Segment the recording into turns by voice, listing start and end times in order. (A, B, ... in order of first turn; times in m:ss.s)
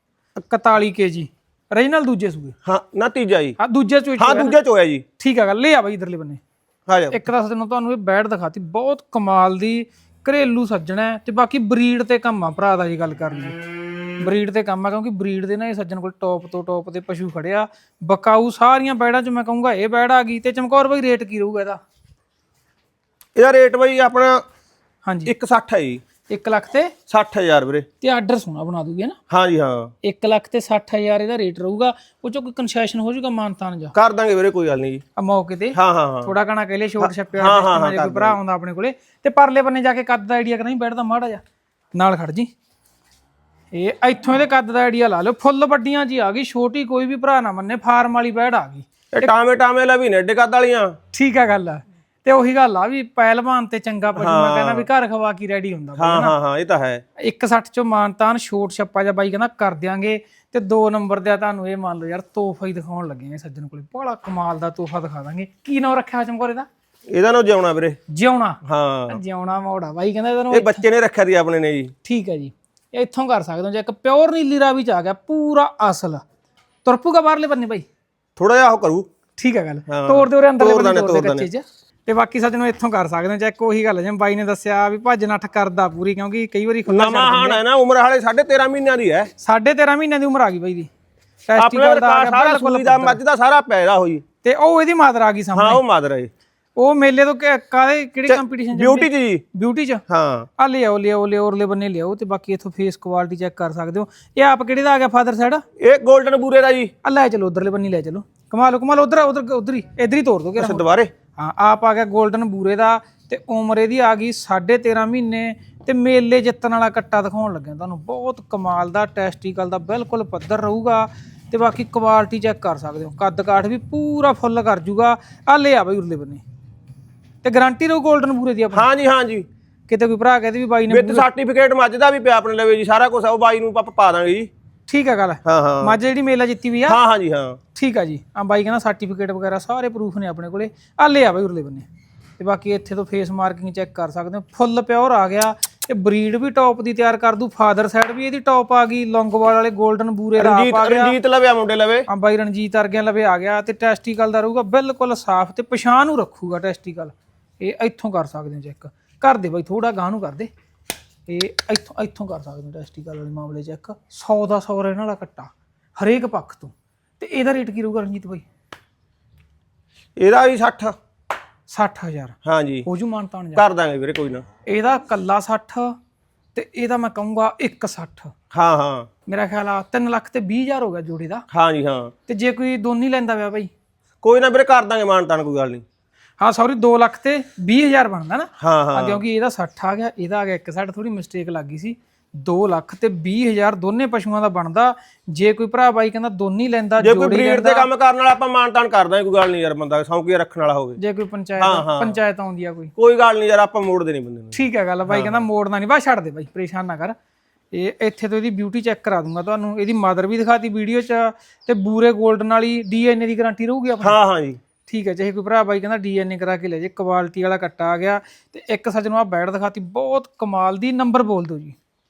0:00.4-0:02.6 A
0:02.6-0:03.6 B
0:03.6-0:04.6 A
0:04.2-0:05.0 B
0:05.2-0:06.4 A
0:06.9-0:07.2 B
0:07.1-0:13.5 A
0:14.2-0:21.8 A
0:23.4-0:24.4 B
0:25.0-0:25.3 A
0:25.3-0:26.0 B
0:26.3-0:26.9 A
0:27.1-0:27.9 B
0:28.0-0:29.2 A
0:29.3-0:29.9 B
0:30.0-0:33.9 A
0:34.0-0:35.0 B
0:35.2-0:41.4 A
0:35.8-0:36.3 B
0:37.0-0:38.4 B
0:42.0-0:42.5 A
0:43.7-0:49.3 A
0:49.1-0:51.0 B
0:51.1-0:56.3 A
0:54.2-0:54.9 B
0:56.0-0:57.0 B
0:57.2-1:06.7 A
1:07.1-1:08.0 B
1:08.1-1:10.8 A
1:08.6-1:09.2 B
1:10.5-1:11.9 B
1:12.0-1:16.2 A
1:16.8-1:17.9 A
1:18.4-1:19.1 B
1:19.4-1:27.6 A
1:19.9-1:21.5 B
1:26.9-1:29.3 B
1:29.4-1:30.9 A
1:31.5-1:33.2 A
1:31.6-1:34.2 B
1:34.4-1:35.8 A
1:35.5-1:36.3 B
1:36.8-1:40.0 A
1:38.3-1:39.4 B
1:40.1-1:40.5 B
1:40.6-1:45.6 A
1:45.8-1:46.9 B
1:47.0-1:50.8 A
1:50.6-1:51.1 B
1:51.4-2:06.4 A
2:07.4-2:08.9 A
2:08.7-2:09.5 B
2:09.9-2:11.3 A
2:10.9-2:14.5 B
2:14.9-2:17.0 A
2:15.4-2:16.0 B
2:16.9-2:17.6 B
2:17.8-2:21.9 A
2:22.4-2:31.2 A
2:30.4-2:32.1 B
2:32.1-2:40.5 A
2:41.3-2:48.4 A
2:50.2-2:51.0 B
2:51.7-2:52.4 A
2:52.4-2:52.9 B
2:52.9-2:53.6 A
2:53.6-2:54.4 B
2:54.7-2:56.0 A
2:56.6-2:58.3 A
2:58.5-2:59.1 B
2:59.3-3:01.4 A
3:01.5-3:02.1 B
3:02.3-3:03.7 A
3:04.2-3:05.8 B
3:06.4-3:17.9 A
3:08.6-3:09.2 B
3:17.0-3:21.0 B
3:21.0-3:22.9 A
3:21.6-3:22.2 B
3:23.0-3:24.6 B
3:24.5-3:27.2 A
3:25.1-3:25.4 B
3:27.7-3:34.2 A
3:34.0-3:34.6 B
3:34.9-3:41.8 A